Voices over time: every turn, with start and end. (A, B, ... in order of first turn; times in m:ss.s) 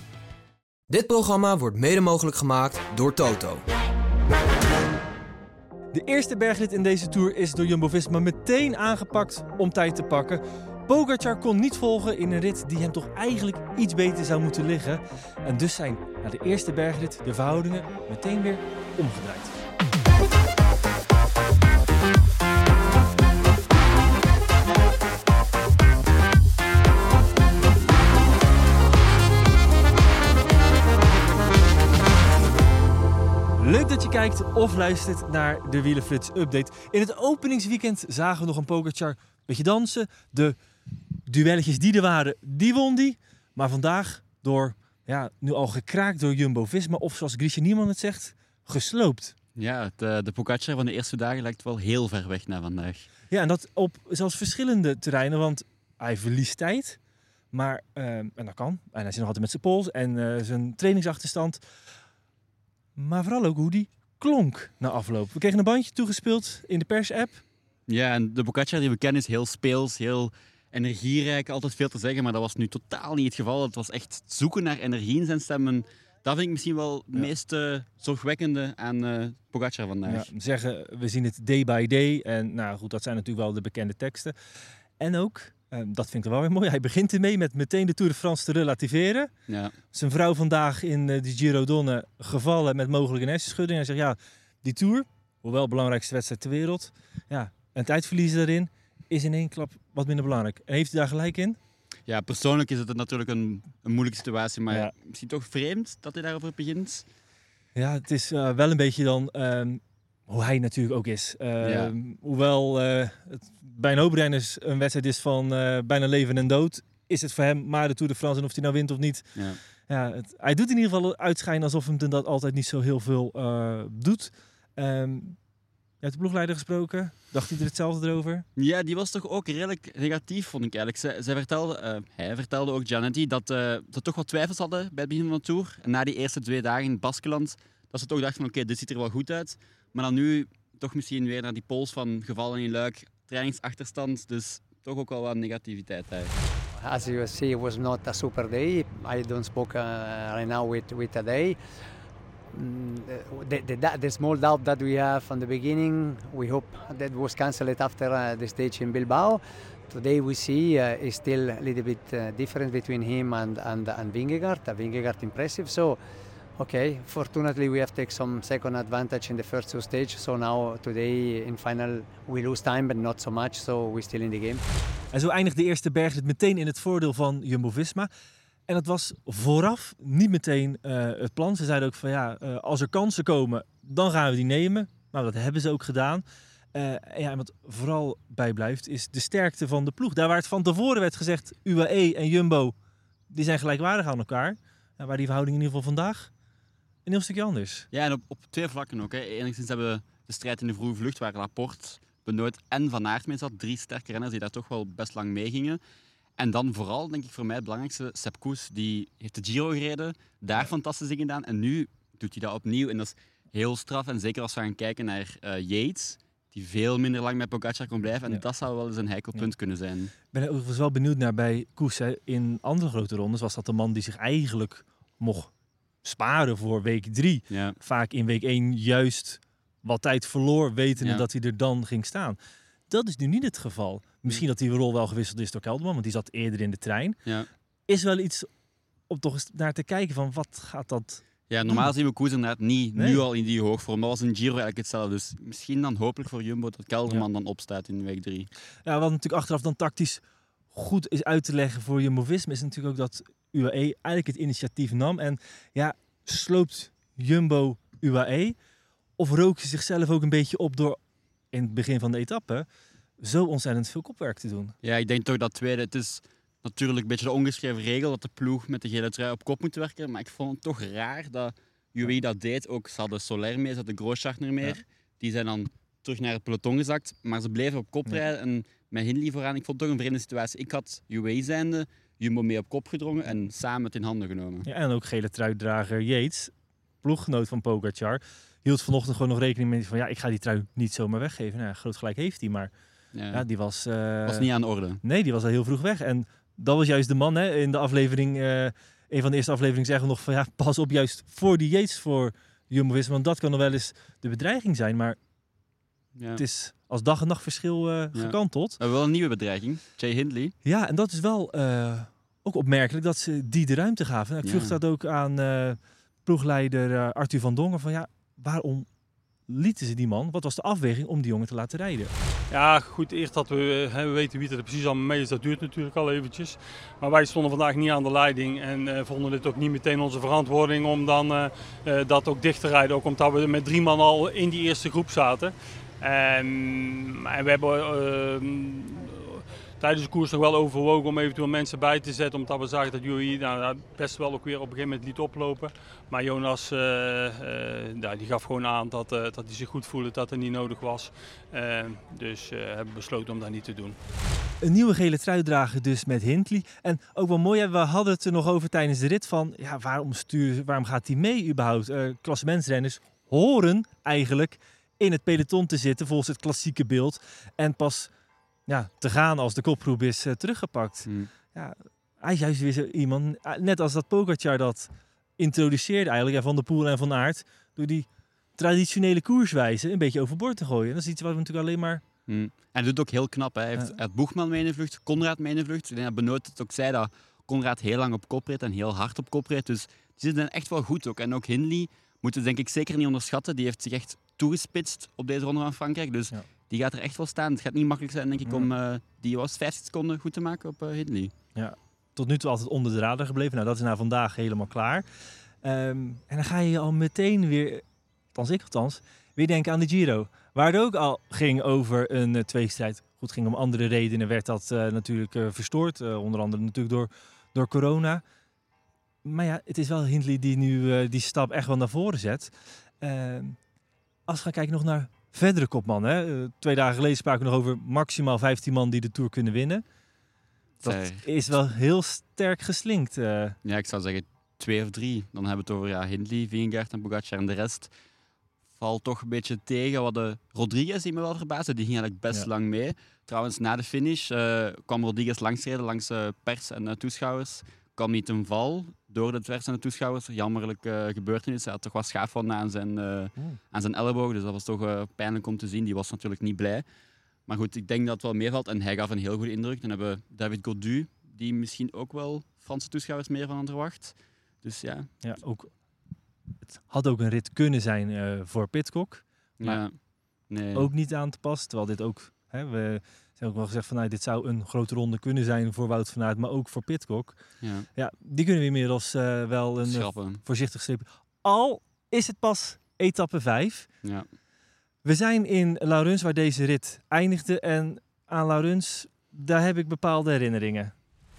0:00.9-0:03.6 A
0:05.9-0:19.6 B
0:33.6-0:40.6 B
0:41.3-0:49.3 B
0:49.6-0:53.1 C
0:53.3-0:57.0 B
0:57.5-1:01.6 B
1:03.0-1:07.4 B
1:07.9-1:20.3 C
1:20.0-1:24.3 B
1:25.0-1:29.3 B
1:29.5-1:29.7 C
1:29.9-1:41.6 B
1:42.1-1:47.0 C
1:47.7-1:59.4 B
1:51.6-1:51.9 C
1:59.9-2:05.4 B
2:06.0-2:08.4 B
2:08.6-2:26.3 C
2:26.7-2:31.6 D
2:32.5-2:46.0 D
2:46.6-2:54.6 D
2:55.1-2:58.1 B
2:58.7-3:06.2 B
3:06.7-3:12.7 B
3:13.3-3:16.3 B
3:17.0-3:17.9 B
3:17.9-3:25.8 C
3:26.4-3:40.1 C
3:40.3-3:45.5 B
3:46.0-3:52.4 B
3:47.5-3:47.8 C
3:51.0-3:51.2 C
3:52.9-3:57.2 B
3:57.9-3:58.5 B
3:59.1-4:01.9 B
4:01.5-4:08.5 C
4:02.9-4:03.2 B
4:08.8-4:10.2 B
4:10.7-4:18.6 B
4:19.2-4:21.0 B
4:21.5-4:22.6 B
4:23.2-4:24.7 B
4:24.8-4:44.7 C
4:44.6-4:46.5 B
4:47.0-4:52.7 B
4:53.1-4:53.4 C
4:53.3-4:54.5 B
4:54.2-4:55.0 C
4:55.0-5:05.2 B
5:06.1-5:06.4 C
5:06.4-5:08.8 B
5:08.1-5:10.5 C
5:10.6-5:18.9 B
5:14.4-5:14.8 C
5:19.5-5:22.1 B
5:22.5-5:54.0 E
5:54.6-6:08.1 B
6:08.7-6:22.0 B
6:11.0-6:11.3 C
6:22.3-6:41.3 C
6:41.5-6:45.0 B
6:45.6-6:47.8 B
6:48.3-6:58.2 B
6:59.2-7:03.6 B
7:04.3-7:09.8 B
7:10.8-7:11.6 C
7:10.8-7:13.6 B
7:13.6-7:17.9 C
7:18.7-7:36.8 C
7:37.5-7:45.1 C
7:45.2-7:45.7 B
7:46.8-7:49.8 B
7:49.6-7:50.9 C
7:50.7-7:57.4 B
7:57.6-7:57.9 C
7:57.9-8:03.9 B
7:59.8-8:00.4 C
8:05.0-8:10.9 B